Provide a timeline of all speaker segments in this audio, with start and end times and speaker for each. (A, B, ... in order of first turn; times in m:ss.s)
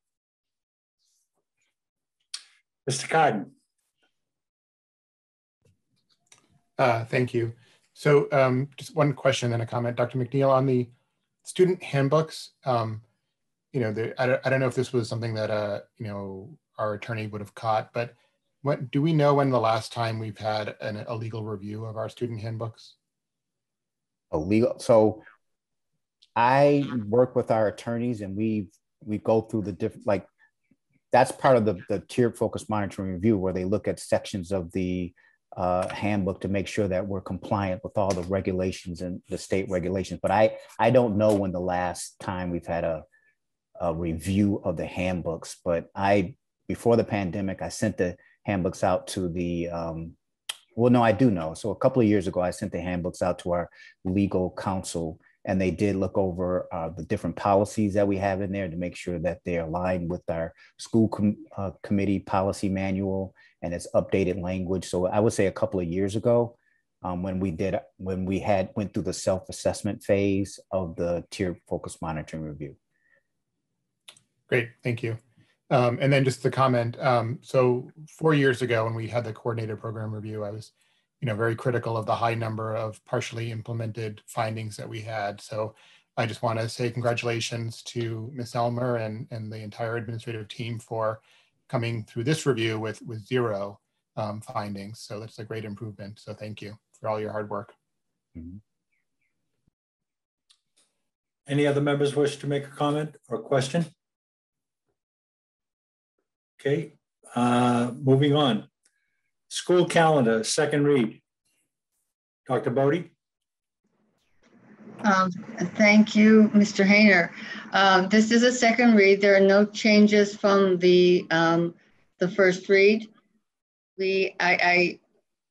0:02.8-0:03.5 A
0:06.8-0:10.9 B
0:11.4-0:13.0 B
0:13.7-0:22.9 B
0:24.3-0:25.2 C
0:26.4-0:30.2 C
0:31.1-0:43.0 C
0:43.8-0:50.1 C
0:50.8-1:12.8 C
1:14.5-1:15.2 B
1:15.7-1:37.7 B
1:41.5-1:43.9 A
1:46.6-1:48.7 A
1:49.5-1:51.2 A
1:52.5-1:53.1 A
1:55.0-2:03.1 D
2:04.0-2:05.0 D